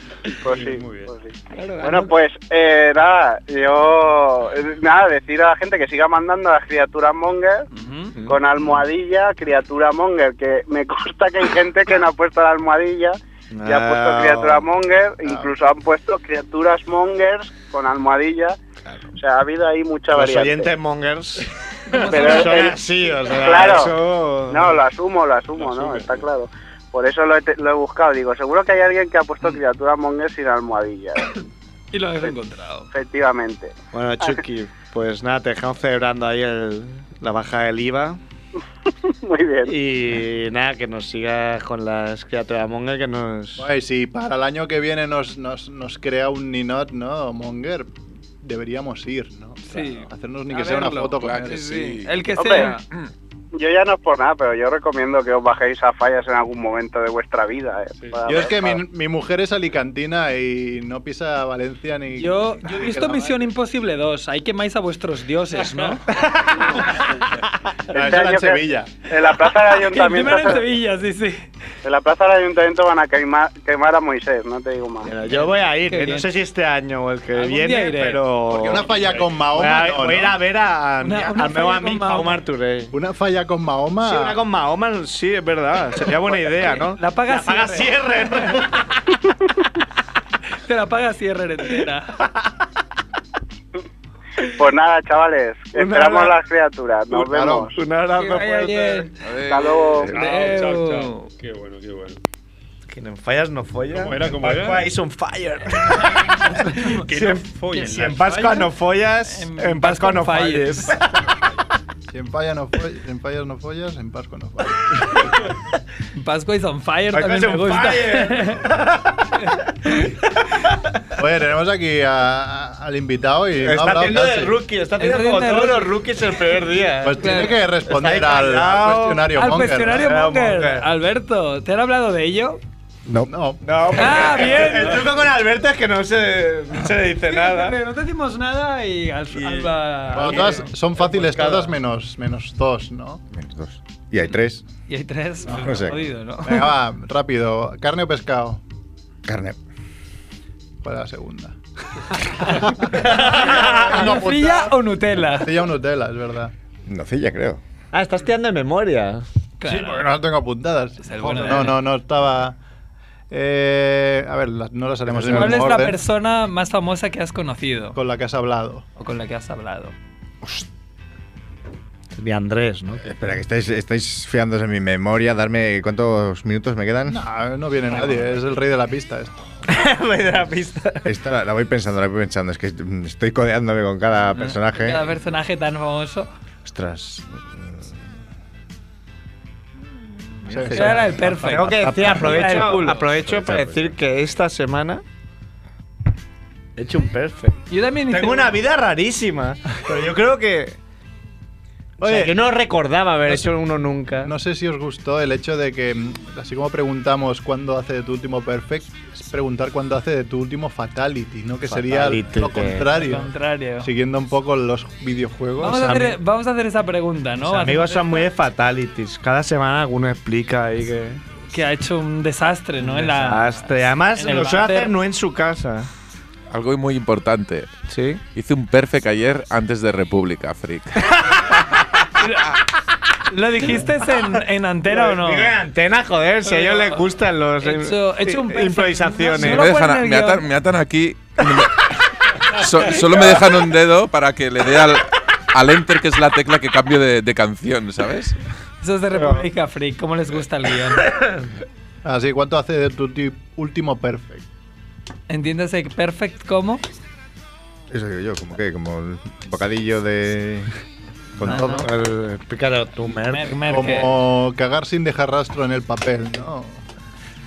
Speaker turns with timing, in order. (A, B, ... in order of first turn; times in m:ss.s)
0:00.4-0:01.1 A
0:00.4-0:07.6 B
0:01.6-0:02.1 C
0:07.7-0:08.1 D
0:08.2-0:08.8 C
0:08.2-0:18.6 B
0:13.5-0:14.7 C
0:15.2-0:15.5 E
0:19.1-0:20.7 B
0:20.1-0:24.8 C
0:21.9-0:22.8 D
0:22.1-0:24.0 B
0:24.5-0:31.4 B
0:25.6-0:26.2 A
0:31.9-0:32.9 D
0:32.9-0:34.4 B
0:33.9-0:38.2 C
0:39.1-0:39.8 B
0:39.6-0:43.6 C
0:43.6-0:51.8 E
0:49.7-0:52.8 D
0:51.2-0:53.1 F
0:52.4-0:52.7 B
0:53.5-0:58.6 B
0:58.0-0:58.5 A
0:58.2-1:03.5 E
1:02.2-1:06.0 D
1:05.8-1:07.2 C
1:07.9-1:09.0 E
1:07.9-1:10.7 B
1:09.7-1:11.5 D
1:11.8-1:15.1 B
1:15.0-1:18.9 C
1:15.3-1:16.3 D
1:17.4-1:18.3 D
1:18.5-1:20.4 E
1:18.9-1:19.3 A
1:19.5-1:22.9 C
1:21.0-1:22.4 D
1:22.9-1:24.4 E
1:24.0-1:29.1 C
1:26.6-1:28.6 D
1:30.6-1:32.2 D
1:34.6-1:37.8 B
1:35.7-1:36.4 C
1:37.1-1:39.1 C
1:37.2-1:37.6 E
1:38.1-1:39.1 D
1:39.2-1:40.1 F
1:39.4-1:40.1 B
1:40.1-1:42.2 A
1:40.1-1:41.3 D
1:42.9-1:51.0 C
1:43.9-1:44.9 A
1:46.5-1:48.7 A
1:49.3-1:50.9 D
1:52.1-1:55.4 E
1:56.1-1:58.6 D
1:57.1-2:00.8 C
2:01.1-2:04.6 E
2:03.6-2:09.3 C
2:05.0-2:05.9 D
2:07.0-2:10.1 E
2:07.2-2:07.6 D
2:09.3-2:12.6 D
2:09.9-2:10.9 C
2:13.0-2:13.3 G
2:13.2-2:13.6 E
2:13.6-2:17.8 C
2:13.9-2:15.0 D
2:17.2-2:20.7 D
2:19.3-2:21.7 C
2:20.1-2:23.2 E
2:23.3-2:24.6 G
2:24.9-2:26.7 D
2:25.5-2:26.0 G
2:26.4-2:28.6 E
2:29.2-2:29.6 G
2:30.8-2:31.6 E
2:32.4-2:36.5 E
2:32.9-2:34.0 C
2:33.4-2:35.6 D
2:36.8-2:37.6 G
2:37.9-2:39.2 C
2:39.6-2:40.1 D
2:39.6-2:42.6 E
2:41.0-2:41.8 D
2:43.3-2:46.0 E
2:45.1-2:45.6 G
2:45.3-2:48.0 D
2:47.9-2:48.8 E
2:49.0-2:49.9 D
2:52.1-2:53.0 C
2:53.0-2:57.2 G
2:57.1-2:59.4 E
2:59.6-3:01.1 C
3:01.0-3:05.1 G
3:04.3-3:06.3 D
3:06.6-3:08.0 G
3:10.5-3:11.4 E
3:10.5-3:14.0 G
3:10.7-3:13.1 D
3:10.7-3:15.0 C
3:16.8-3:20.8 C
3:17.7-3:18.6 D
3:22.0-3:22.4 E
3:22.0-3:24.3 C
3:24.2-3:36.2 E
3:31.7-3:32.9 C
3:32.9-3:33.9 D
3:35.6-3:38.3 D
3:37.4-3:41.2 C
3:41.5-3:44.9 D
3:42.8-3:45.9 C
3:46.5-3:47.7 F
3:47.9-3:48.2 C
3:48.3-3:51.2 F
3:51.1-3:51.6 C
3:52.2-3:52.5 D
3:53.3-3:55.5 D
3:53.6-3:54.3 C
3:54.9-3:59.7 C
3:56.4-3:57.0 D
3:57.6-4:00.5 D
3:59.3-4:01.9 F
4:02.4-4:08.4 F
4:03.1-4:03.4 C
4:08.8-4:11.1 D
4:09.1-4:09.4 C
4:11.1-4:11.4 C
4:12.0-4:14.4 E
4:15.3-4:16.8 D
4:17.9-4:20.7 G
4:21.4-4:21.9 G
4:21.4-4:21.9 D
4:21.5-4:24.0 C
4:23.3-4:24.1 D
4:23.7-4:26.8 E